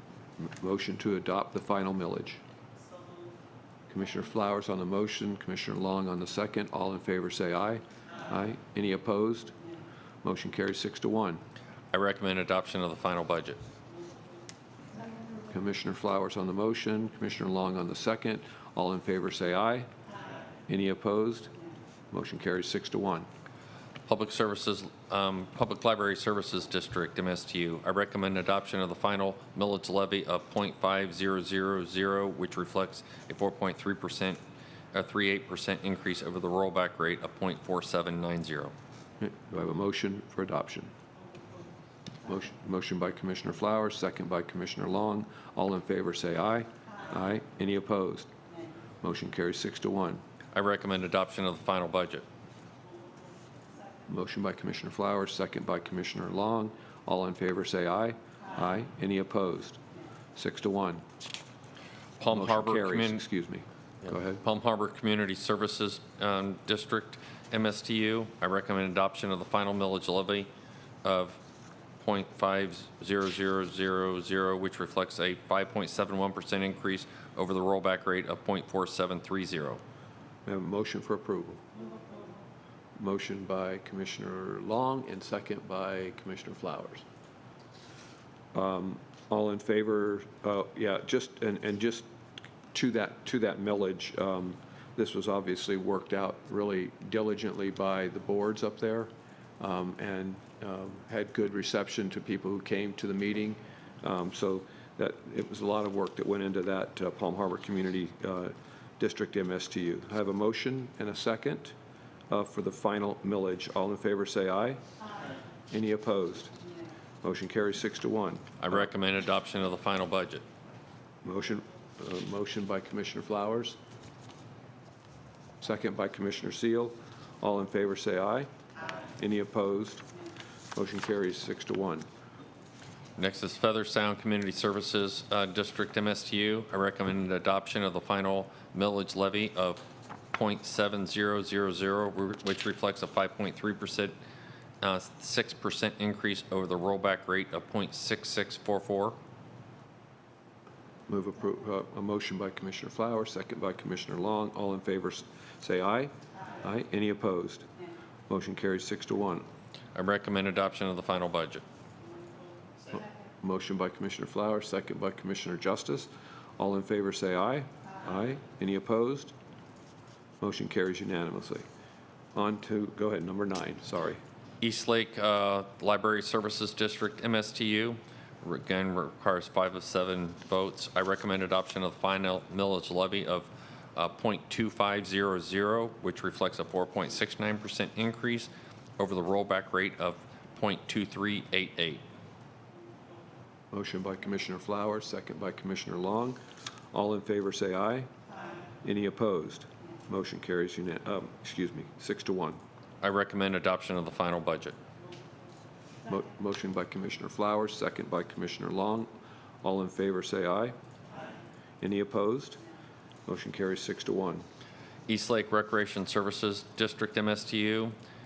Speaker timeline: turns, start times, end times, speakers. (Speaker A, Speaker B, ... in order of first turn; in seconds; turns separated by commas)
Speaker A: 0.4-2.4, Speaker A: 3.9-9.5, Speaker A: 10.2-11.4, Speaker B: 11.9-13.6, Speaker A: 15.5-19.9, Speaker A: 20.7-21.5, Speaker A: 22.1-23.3, Speaker B: 24.0-34.4, Speaker B: 34.9-38.7, Speaker A: 39.2-40.9, Speaker A: 42.2-48.3, Speaker A: 49.0-50.2, Speaker B: 50.5-52.2, Speaker A: 54.1-59.8, Speaker A: 60.4-61.0, Speaker B: 62.2-63.2, Speaker A: 62.3-64.4, Speaker B: 64.0-70.5, Speaker B: 71.0-71.4, Speaker B: 72.0-79.8, Speaker A: 80.5-81.6, Speaker A: 83.0-87.0, Speaker A: 88.5-92.1, Speaker A: 92.7-111.7, Speaker A: 112.3-114.8, Speaker A: 115.7-116.5, Speaker A: 117.2-118.5, Speaker B: 118.6-120.4, Speaker A: 121.2-123.8, Speaker A: 125.6-128.5, Speaker A: 129.2-130.0, Speaker A: 130.7-132.1, Speaker B: 133.2-144.1, Speaker B: 144.8-149.2, Speaker A: 151.1-156.1, Speaker A: 156.6-157.7, Speaker A: 158.3-159.4, Speaker B: 159.9-161.6, Speaker A: 162.9-169.3, Speaker A: 170.4-171.6, Speaker A: 172.3-174.2, Speaker B: 174.6-192.0, Speaker A: 193.7-196.4, Speaker A: 196.9-198.1, Speaker A: 198.8-202.6, Speaker B: 203.0-204.8, Speaker A: 206.1-209.1, Speaker A: 209.6-210.7, Speaker A: 211.8-212.6, Speaker A: 213.3-214.4, Speaker B: 215.1-217.9